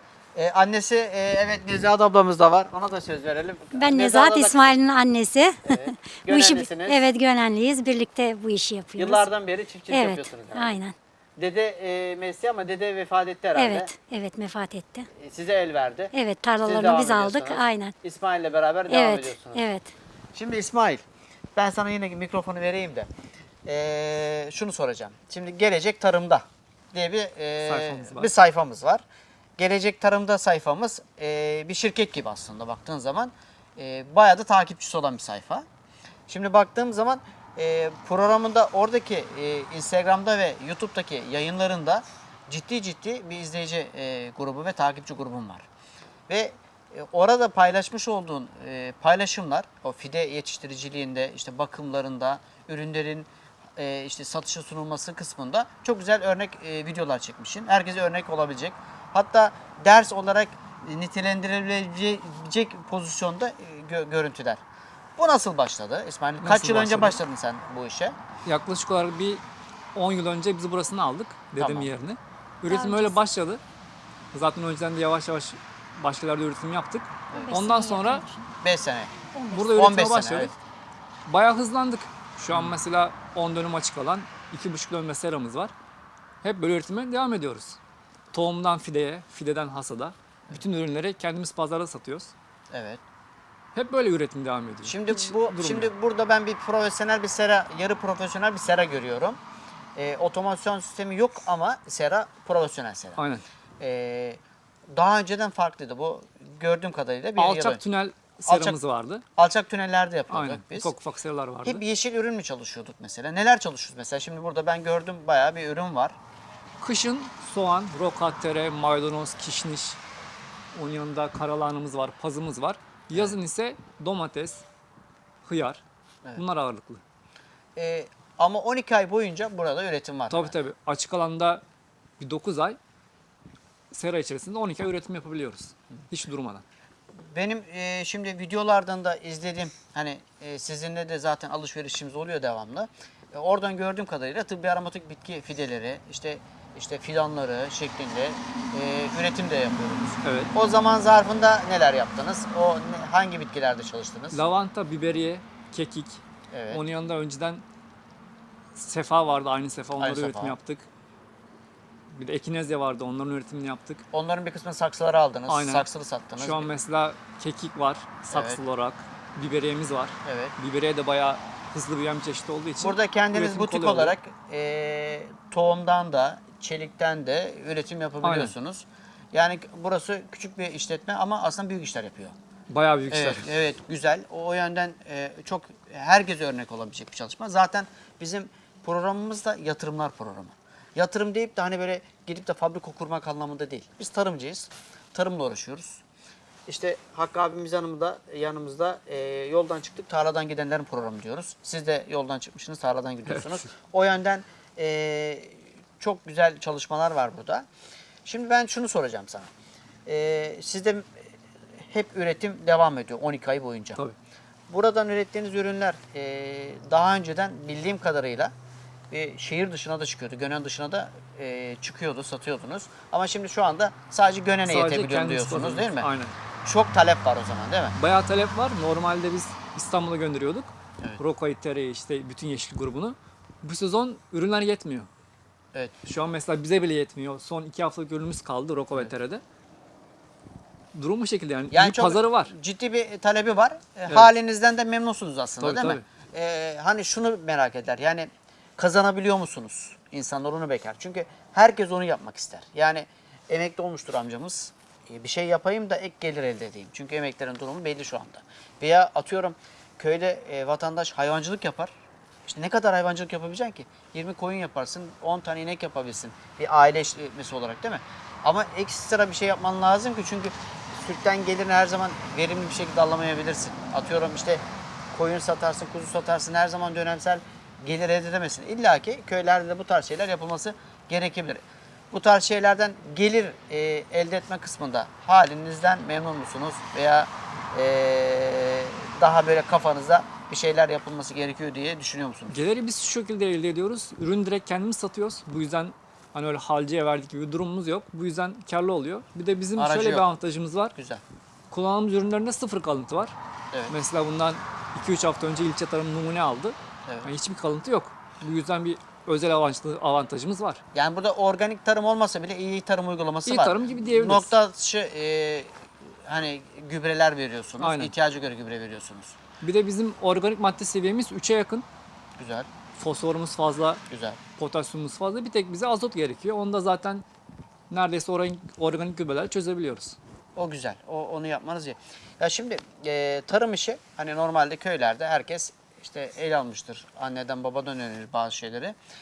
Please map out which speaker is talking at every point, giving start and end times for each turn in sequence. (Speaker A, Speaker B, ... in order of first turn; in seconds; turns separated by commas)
Speaker A: 0.3-4.7, Speaker B: 3.8-9.3, Speaker A: 5.7-7.0, Speaker A: 9.0-10.8, Speaker B: 9.9-10.9, Speaker A: 11.4-13.9, Speaker B: 13.6-15.1, Speaker A: 15.2-16.1, Speaker B: 16.1-17.9, Speaker A: 16.6-19.6, Speaker B: 18.9-19.9, Speaker A: 20.4-21.0, Speaker A: 21.6-23.1, Speaker A: 23.7-29.0, Speaker C: 27.7-28.3, Speaker A: 29.6-35.6, Speaker A: 36.3-45.6, Speaker A: 46.3-64.6, Speaker A: 65.2-68.2, Speaker C: 66.4-67.2, Speaker C: 68.5-69.4, Speaker C: 70.0-73.6, Speaker A: 71.6-71.9, Speaker B: 72.7-73.2, Speaker C: 74.3-78.2, Speaker A: 77.3-77.6, Speaker B: 77.4-78.5, Speaker A: 78.6-79.1, Speaker B: 79.3-79.7, Speaker C: 79.5-80.5, Speaker A: 79.7-80.5, Speaker C: 81.3-85.7, Speaker C: 86.4-87.8, Speaker C: 88.3-92.3, Speaker A: 92.7-93.0, Speaker C: 93.8-95.9, Speaker A: 94.8-99.4, Speaker A: 100.0-103.2, Speaker C: 103.2-103.4, Speaker A: 103.8-107.8, Speaker C: 107.4-109.2, Speaker A: 108.5-108.8, Speaker A: 109.4-110.9, Speaker C: 110.3-111.8, Speaker A: 111.6-116.2, Speaker C: 116.8-120.0, Speaker C: 120.7-124.7, Speaker C: 125.4-125.8, Speaker C: 126.4-127.0, Speaker A: 127.8-130.6, Speaker C: 130.3-131.6, Speaker C: 132.2-132.8, Speaker C: 133.9-136.6, Speaker A: 137.3-154.4, Speaker C: 150.2-150.5, Speaker C: 154.3-157.6, Speaker A: 156.5-156.8, Speaker C: 158.8-160.9, Speaker A: 160.0-160.6, Speaker C: 162.1-164.0, Speaker A: 164.1-166.7, Speaker C: 165.5-174.2, Speaker A: 168.3-168.6, Speaker A: 170.2-170.5, Speaker A: 172.8-182.3, Speaker C: 178.2-178.5, Speaker C: 182.7-183.5, Speaker A: 183.1-196.0, Speaker A: 196.7-207.7, Speaker C: 203.3-203.6, Speaker A: 208.2-209.5, Speaker A: 210.1-211.1, Speaker A: 211.8-214.0, Speaker A: 214.7-218.5, Speaker A: 219.1-226.1, Speaker C: 224.7-226.4, Speaker A: 226.6-227.9, Speaker C: 227.9-235.1, Speaker C: 236.0-239.4, Speaker C: 240.9-242.5, Speaker A: 241.7-261.9, Speaker C: 245.6-246.0, Speaker A: 262.5-292.6, Speaker C: 292.5-300.9, Speaker A: 299.8-300.2, Speaker A: 301.0-301.2, Speaker C: 301.7-303.4, Speaker C: 303.9-310.8, Speaker A: 307.1-307.3, Speaker A: 310.9-315.7, Speaker C: 313.5-314.6, Speaker A: 316.2-319.4, Speaker C: 317.8-318.1, Speaker C: 319.6-321.9, Speaker A: 322.4-322.7, Speaker C: 323.0-324.0, Speaker A: 324.1-324.4, Speaker C: 324.6-327.2, Speaker C: 327.9-330.2, Speaker A: 330.6-338.9